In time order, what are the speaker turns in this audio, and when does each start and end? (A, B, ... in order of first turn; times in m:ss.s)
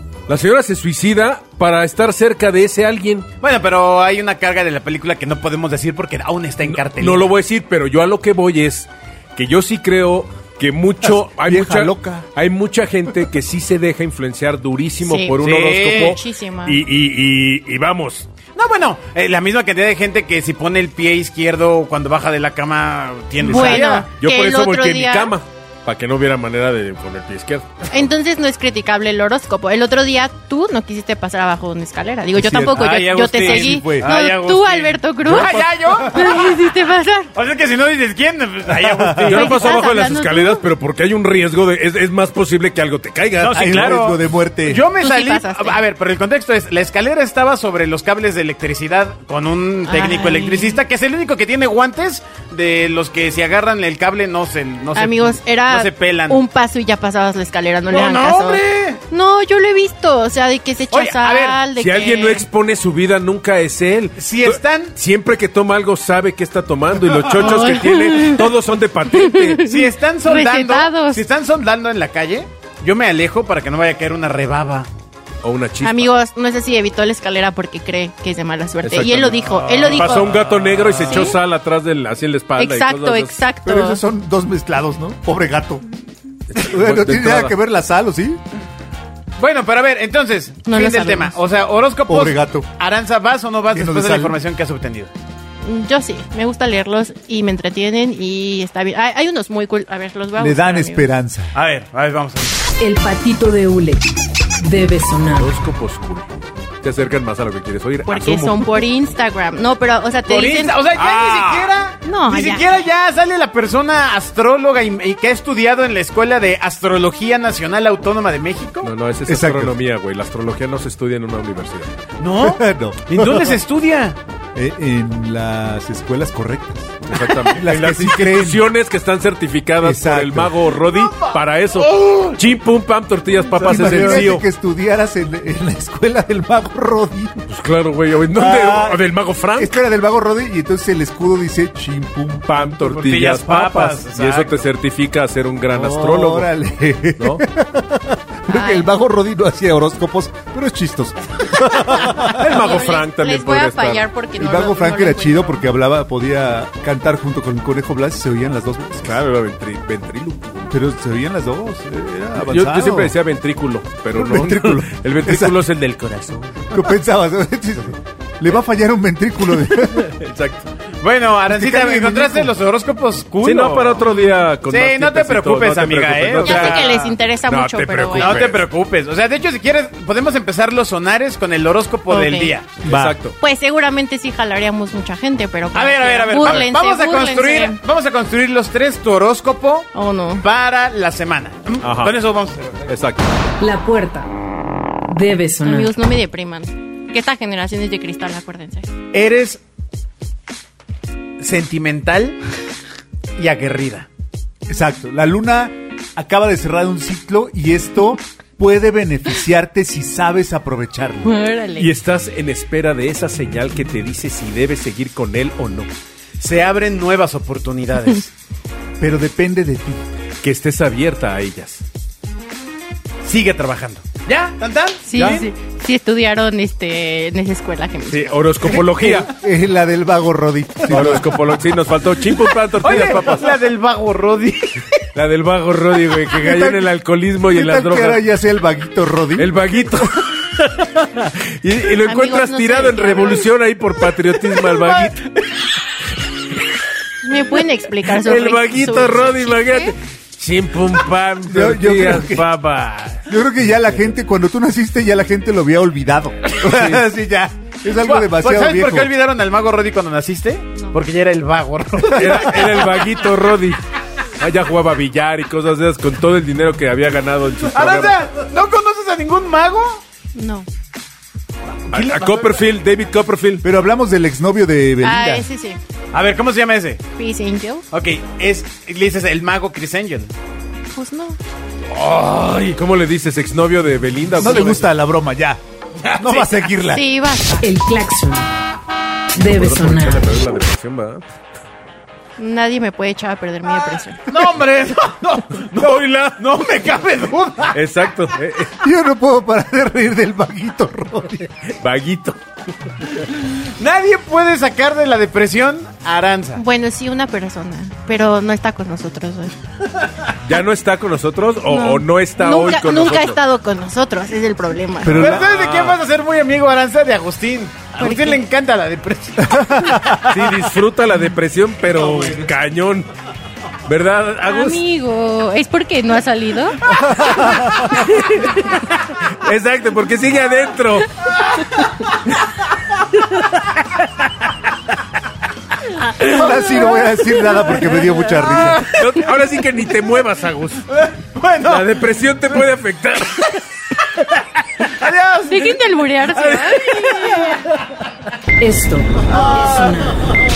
0:00.3-0:03.3 A
0:03.4-0:07.3 B
0:06.6-0:18.3 A
0:11.0-0:12.3 C
0:15.0-0:16.8 D
0:15.4-0:16.2 B
0:18.6-0:24.1 B
0:23.4-0:25.3 D
0:23.5-0:27.7 A
0:27.9-0:37.3 D
0:32.4-0:34.2 C
0:32.7-0:36.6 B
0:34.1-0:34.4 A
0:35.3-0:35.7 A
0:37.3-0:39.8 B
0:38.7-0:39.4 C
0:39.2-0:44.1 A
0:39.3-0:40.6 D
0:43.4-0:56.4 B
0:43.4-0:44.9 C
0:45.0-0:45.8 D
0:49.8-0:50.8 D
0:55.0-1:02.5 D
0:57.9-0:59.0 B
1:00.9-1:01.6 B
1:01.8-1:09.7 A
1:04.2-1:04.9 B
1:07.4-1:08.5 D
1:09.1-1:11.2 D
1:09.6-1:14.9 B
1:15.4-1:16.1 A
1:15.8-1:20.3 D
1:18.8-1:23.4 A
1:19.6-1:20.2 B
1:21.0-1:21.4 D
1:22.6-1:24.0 D
1:23.6-1:25.9 C
1:26.5-1:27.5 A
1:26.6-1:28.4 C
1:29.4-1:35.1 B
1:30.7-1:31.4 D
1:32.1-1:32.7 C
1:33.7-1:34.4 C
1:35.6-1:41.1 D
1:40.4-1:41.6 C
1:41.5-1:42.6 B
1:42.8-1:44.1 E
1:44.6-1:45.6 E
1:45.4-1:46.3 A
1:46.8-1:48.8 A
1:48.1-1:50.8 D
1:50.3-1:58.9 B
1:51.0-1:51.7 A
1:52.0-1:52.8 D
1:58.8-2:01.9 A
1:59.3-1:59.7 C
2:02.2-2:04.2 B
2:02.4-2:03.6 C
2:04.6-2:08.7 C
2:07.1-2:14.4 A
2:09.8-2:10.7 C
2:10.8-2:12.4 B
2:13.6-2:14.3 B
2:13.6-2:17.3 C
2:17.5-2:19.8 A
2:18.4-2:19.0 C
2:19.6-2:23.2 C
2:22.5-2:26.5 A
2:23.0-2:24.7 B
2:25.7-2:32.5 C
2:28.5-2:28.9 D
2:31.8-2:35.6 D
2:32.0-2:34.1 A
2:34.4-2:39.2 C
2:39.0-2:40.7 A
2:40.7-2:43.2 C
2:42.4-2:46.7 A
2:44.2-2:45.6 C
2:46.7-2:50.1 C
2:49.6-2:50.7 A
2:51.0-2:54.1 B
2:51.5-2:52.6 C
2:53.4-2:58.7 A
2:54.7-2:57.1 B
2:56.4-2:58.5 D
2:58.2-3:02.8 B
3:02.1-3:02.6 D
3:02.8-3:03.4 A
3:02.8-3:03.2 C
3:03.4-3:07.8 D
3:05.7-3:12.8 B
3:09.9-3:10.4 D
3:11.8-3:12.2 A
3:12.8-3:13.3 A
3:13.6-3:14.3 E
3:15.1-3:16.0 E
3:15.6-3:18.9 D
3:19.1-3:19.6 B
3:21.4-3:22.4 B
3:23.4-3:24.1 B
3:24.7-3:31.4 C
3:31.2-3:31.9 D
3:31.8-3:35.9 A
3:36.4-3:38.3 B
3:39.0-3:40.0 C
3:40.4-3:41.8 A
3:43.2-3:45.5 B
3:45.1-3:48.6 D
3:45.2-3:45.4 A
3:48.1-3:49.3 A
3:48.8-3:51.4 C
3:50.9-3:53.6 A
3:52.8-3:54.9 B
3:55.2-3:58.2 A
3:56.4-3:56.9 C
3:57.5-3:59.5 C
3:59.4-4:05.3 A
4:02.0-4:03.5 D
4:04.6-4:05.1 B
4:07.2-4:10.0 D
4:08.1-4:13.2 A
4:11.5-4:12.5 C
4:13.3-4:19.1 C
4:16.6-4:17.0 A
4:18.0-4:23.1 B
4:22.0-4:23.8 A
4:24.4-4:28.2 A
4:27.6-4:30.0 B
4:30.4-4:30.7 D
4:31.9-4:32.6 B
4:31.9-4:33.6 A
4:33.6-4:35.5 C
4:35.0-4:35.8 D
4:36.1-4:37.0 B
4:37.2-4:37.8 D
4:37.9-4:40.3 B
4:40.9-4:41.4 D
4:41.9-4:44.9 A
4:44.4-4:45.6 C
4:44.4-4:44.8 B
4:46.0-4:46.7 B
4:46.2-4:47.0 C
4:46.9-4:47.7 D
4:47.6-4:48.5 E
4:49.4-4:50.4 E
4:49.4-4:51.2 A
4:52.4-4:54.2 D
4:54.3-4:57.8 B
4:57.7-4:58.7 A
4:58.8-5:01.6 C
5:01.8-5:02.4 A
5:03.3-5:06.6 B
5:06.6-5:09.5 D
5:10.4-5:13.4 A
5:11.7-5:15.2 D
5:15.0-5:15.6 C
5:15.1-5:20.2 B
5:15.3-5:16.0 A
5:18.0-5:18.4 D
5:19.4-5:20.5 C
5:20.2-5:23.1 A
5:23.8-5:24.8 A
5:24.4-5:26.8 D
5:26.9-5:27.9 C
5:27.8-5:31.1 A
5:36.3-5:38.9 C
5:38.5-5:39.0 B
5:38.6-5:40.9 A
5:40.9-5:42.6 B
5:41.6-5:43.6 A
5:44.9-5:45.8 B
5:45.5-5:47.2 D
5:46.4-5:47.6 A
5:46.5-5:47.6 B
5:48.6-5:50.3 E